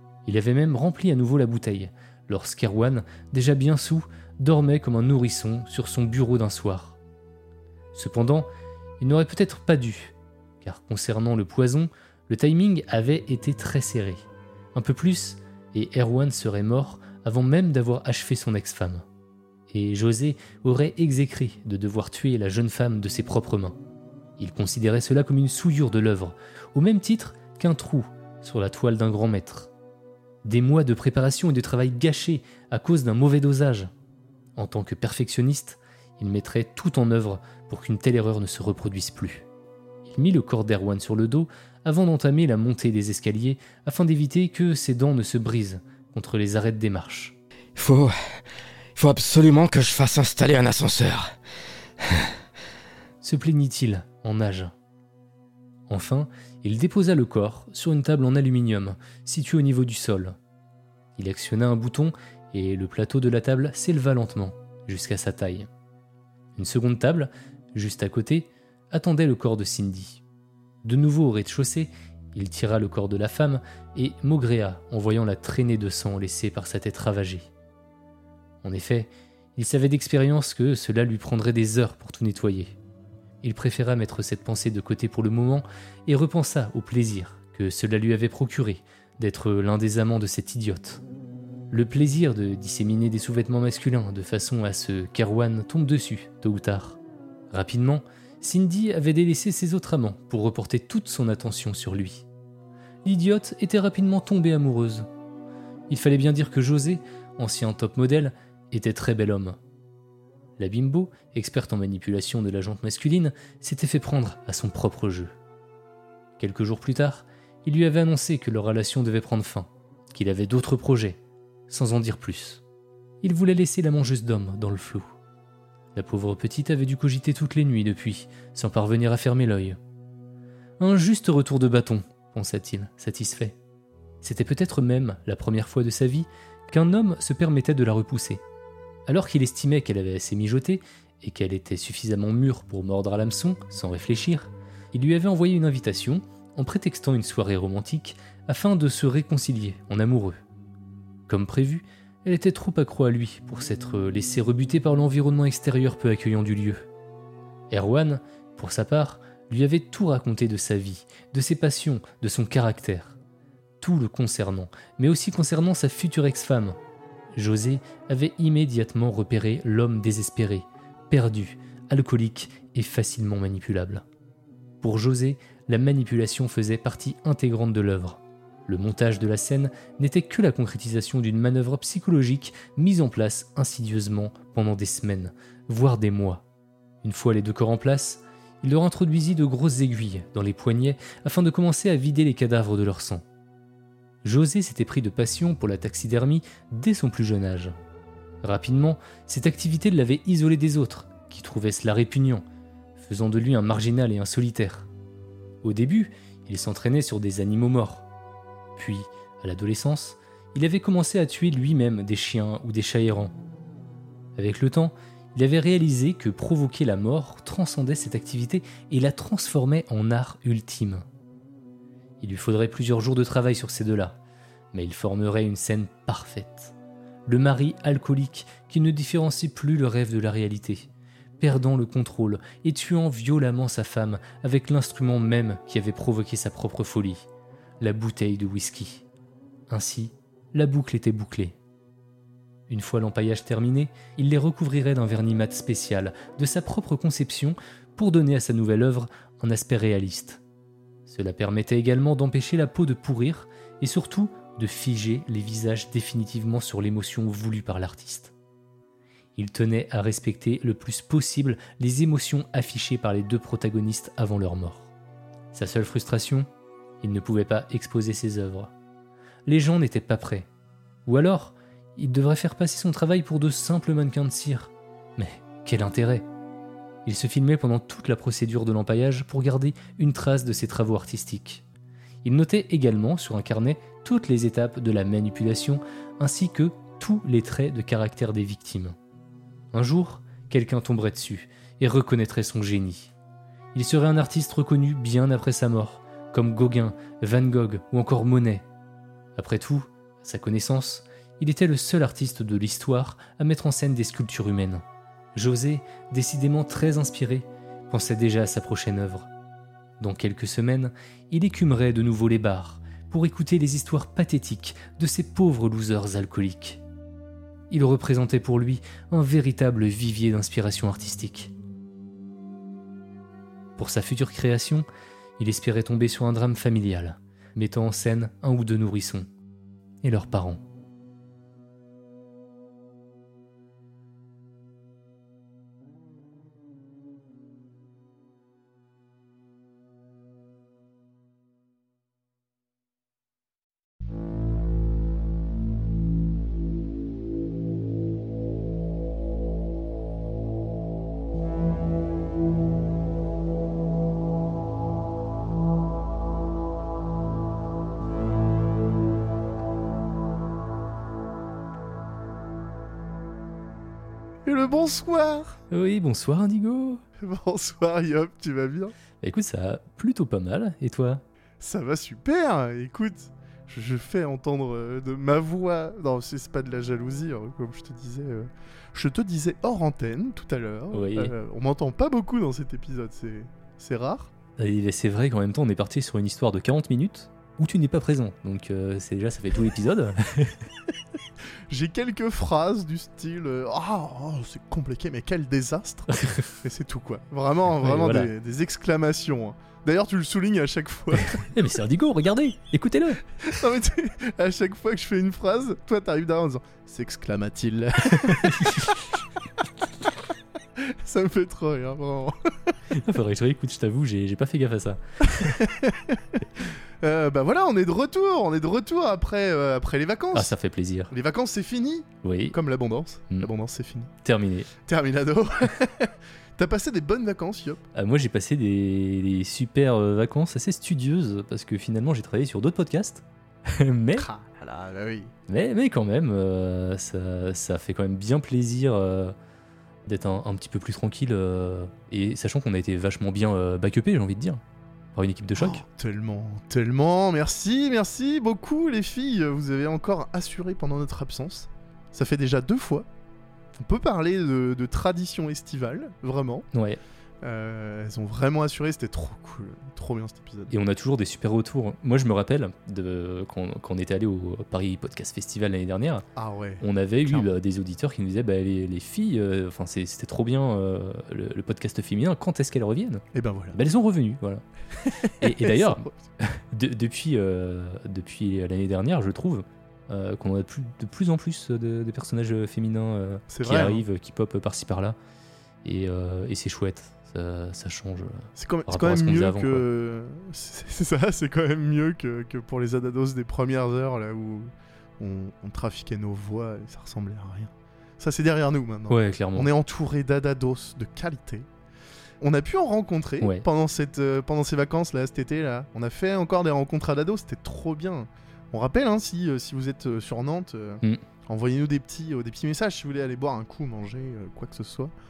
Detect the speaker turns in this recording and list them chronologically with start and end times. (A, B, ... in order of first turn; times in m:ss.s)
0:00.2-0:07.0 A
0:07.9-0:08.5 A
0:09.0-0:19.1 A
0:19.7-0:23.8 A
0:24.4-0:29.7 A
0:30.4-0:33.9 A
0:34.6-0:39.4 A
0:40.1-0:47.4 A
0:47.8-0:48.4 B
0:49.0-0:51.4 B
0:52.0-0:52.3 B
0:53.2-0:54.7 A
0:55.9-1:00.4 A
1:01.2-1:05.7 A
1:06.6-1:10.2 A
1:10.8-1:17.5 A
1:18.6-1:22.8 A
1:23.4-1:31.0 A
1:31.7-1:37.0 A
1:37.5-1:42.2 A
1:43.0-1:45.1 A
1:45.9-1:49.6 A
1:50.6-1:55.3 A
1:56.4-2:02.6 A
2:03.2-2:05.1 A
2:06.0-2:09.8 A
2:10.8-2:13.6 A
2:14.2-2:18.4 A
2:19.1-2:30.4 A
2:31.3-2:36.9 A
2:37.7-2:43.2 A
2:43.8-2:46.8 A
2:47.3-2:54.0 A
2:54.8-3:06.4 A
3:07.0-3:13.2 A
3:14.2-3:17.8 A
3:18.4-3:22.4 A
3:23.0-3:24.9 A
3:25.6-3:28.0 A
3:28.8-3:33.3 A
3:34.4-3:41.0 A
3:42.2-3:44.2 A
3:44.7-3:46.7 A
3:47.3-3:50.9 A
3:51.4-3:57.2 A
3:57.8-3:59.0 A
3:59.7-4:01.6 A
4:02.7-4:10.4 A
4:11.1-4:18.3 A
4:19.4-4:24.9 A
4:25.5-4:26.5 A
4:27.0-4:28.7 A
4:29.5-4:30.5 A
4:31.1-4:36.3 A
4:37.0-4:41.6 A
4:42.2-4:49.0 A
4:49.7-4:53.1 A
4:53.7-4:58.6 A
4:59.4-5:04.8 A
5:05.4-5:09.3 A
5:10.0-5:16.8 A
5:17.7-5:21.5 A
5:23.8-5:24.9 A
5:25.4-5:29.3 A
5:30.0-5:30.6 A
6:04.5-6:05.6 C
6:05.7-6:07.0 A
6:07.2-6:08.9 C
6:09.2-6:11.2 A
6:11.6-6:24.3 C
6:20.9-6:21.3 A
6:24.6-6:30.6 A
6:31.7-6:41.4 C
6:37.8-6:38.3 A
6:41.4-6:43.2 A
6:43.4-6:48.8 C
6:48.2-6:48.8 A
6:50.8-6:52.8 C
6:52.9-6:55.0 A
6:55.4-7:00.5 C
7:00.3-7:01.1 A
7:01.1-7:04.1 C
7:02.2-7:02.6 A
7:04.2-7:04.7 A
7:04.9-7:07.8 C
7:08.0-7:14.3 A
7:14.2-7:15.3 C
7:15.5-7:19.4 A
7:20.1-7:24.6 A
7:25.2-7:25.8 A
7:25.6-7:33.1 C
7:33.8-7:36.7 C
7:36.7-7:37.0 A
7:37.4-7:40.7 C
7:40.7-7:46.2 A
7:46.4-7:47.5 C
7:46.8-7:54.6 A
7:53.3-7:53.8 C
7:55.1-7:56.1 C
7:55.4-8:05.2 A
8:03.5-8:04.0 C
8:05.8-8:09.8 A
8:08.6-8:21.7 C
8:19.1-8:19.7 A
8:22.4-8:35.1 C
8:23.4-8:23.7 A